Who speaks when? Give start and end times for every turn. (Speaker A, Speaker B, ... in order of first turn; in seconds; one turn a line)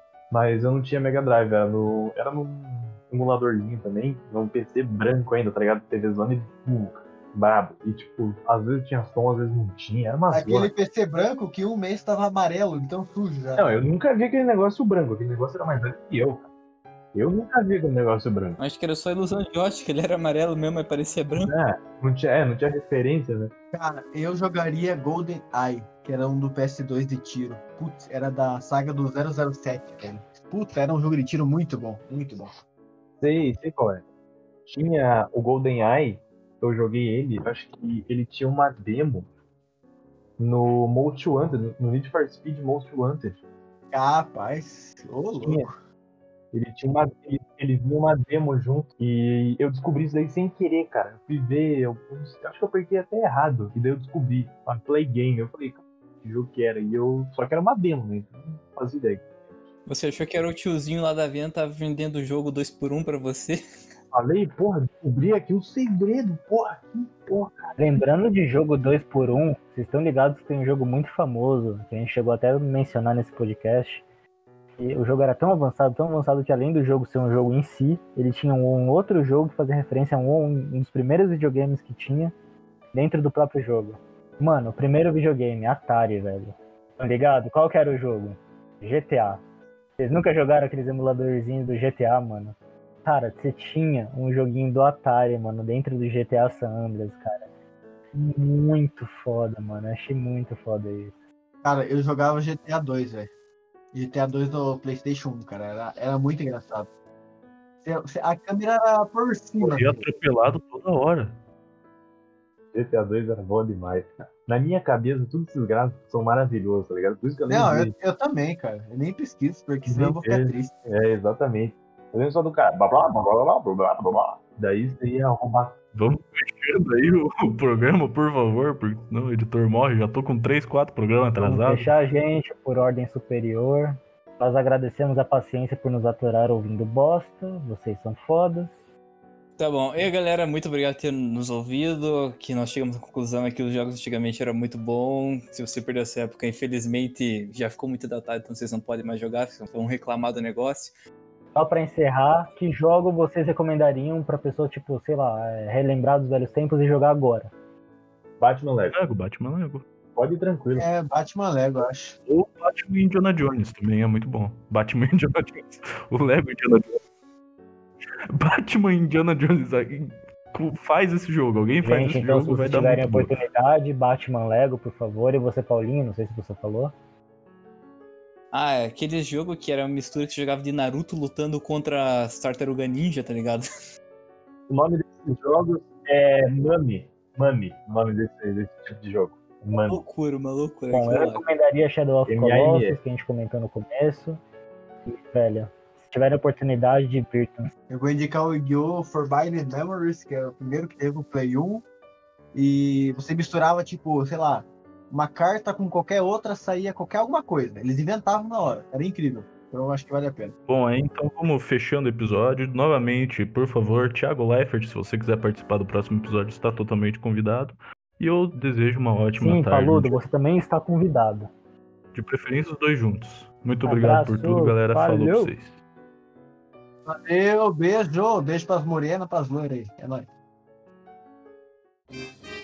Speaker A: 0.3-10.7
Speaker B: 10.3-13.7
Speaker A: 13.6-16.4
Speaker A: 17.1-18.6
Speaker C: 18.6-21.5
Speaker A: 21.4-23.5
Speaker B: 23.7-32.5
Speaker A: 33.2-34.0
Speaker A: 34.6-39.3
Speaker A: 40.4-43.4
Speaker B: 43.9-45.7
Speaker A: 45.4-45.7
Speaker A: 46.5-59.3
Speaker C: 59.9-63.6
Speaker A: 64.1-67.5
Speaker D: 67.8-74.0
Speaker D: 74.8-82.3
Speaker D: 82.9-89.4
Speaker D: 90.0-97.5
Speaker D: 98.1-101.1
Speaker B: 101.6-103.3
Speaker B: 103.9-106.9
Speaker B: 107.8-110.0
Speaker E: 109.6-111.4
Speaker A: 112.7-117.9
Speaker B: 117.5-120.7
Speaker A: 119.9-125.8
Speaker E: 125.9-131.9
Speaker D: 131.4-138.7
Speaker C: 139.6-150.9
Speaker D: 151.5-157.5
Speaker A: 158.4-159.0
Speaker E: 158.9-159.8
Speaker A: 160.1-160.9
Speaker B: 160.8-162.2
Speaker E: 162.3-167.0
Speaker E: 168.3-173.4
Speaker D: 171.8-176.9
Speaker C: 178.5-183.7
Speaker A: 184.7-190.0
Speaker C: 189.9-191.4
Speaker D: 190.9-194.4
Speaker A: 192.3-193.0
Speaker D: 195.1-197.7
Speaker B: 197.9-201.8
Speaker B: 202.5-210.5
Speaker E: 210.7-220.2
Speaker D: 219.4-221.5
Speaker E: 222.1-225.8
Speaker D: 223.8-225.5
Speaker B: 227.1-230.3